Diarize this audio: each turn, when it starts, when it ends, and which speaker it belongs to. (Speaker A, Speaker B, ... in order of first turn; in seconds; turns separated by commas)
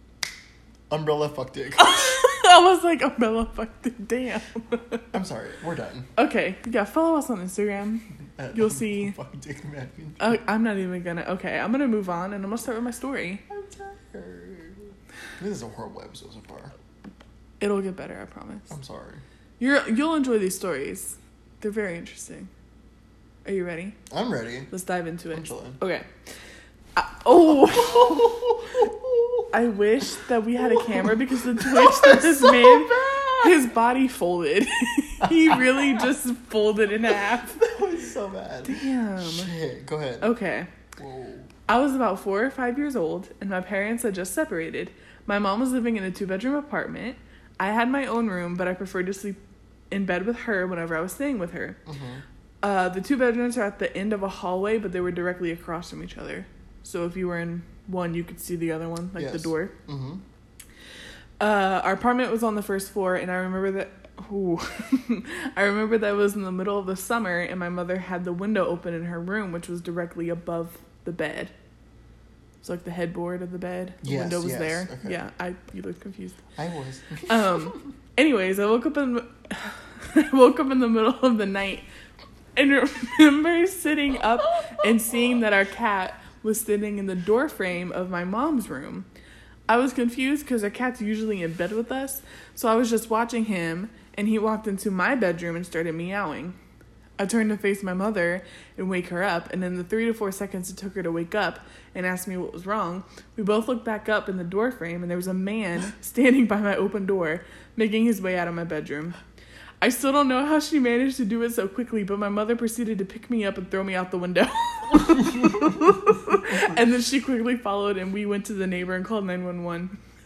Speaker A: 0.9-2.0, Speaker B: 1.8-5.1, Speaker A: 5.1-6.1, Speaker B: 6.2-9.2, Speaker A: 8.4-10.4, Speaker B: 10.2-13.4, Speaker A: 13.5-16.7, Speaker B: 17.6-18.7, Speaker A: 18.7-19.2, Speaker B: 19.6-22.5, Speaker B: 23.4-24.0, Speaker A: 24.1-24.7, Speaker B: 24.7-26.1, Speaker A: 25.3-25.8, Speaker B: 26.9-28.5, Speaker A: 27.5-29.5, Speaker B: 29.5-37.7, Speaker A: 30.6-33.6, Speaker A: 35.2-36.0, Speaker A: 37.1-40.3, Speaker B: 38.6-39.5, Speaker B: 40.2-40.7, Speaker A: 41.0-41.5, Speaker B: 41.7-49.4, Speaker B: 49.9-51.8, Speaker A: 51.9-52.2, Speaker B: 52.6-59.7, Speaker A: 59.1-60.2, Speaker B: 61.4-71.5, Speaker B: 72.6-76.4, Speaker A: 74.0-75.2, Speaker A: 76.5-77.8, Speaker B: 77.3-81.8, Speaker B: 82.5-89.0, Speaker B: 89.7-96.5, Speaker B: 97.2-109.2, Speaker B: 109.8-120.0, Speaker A: 115.1-115.9, Speaker A: 116.5-116.7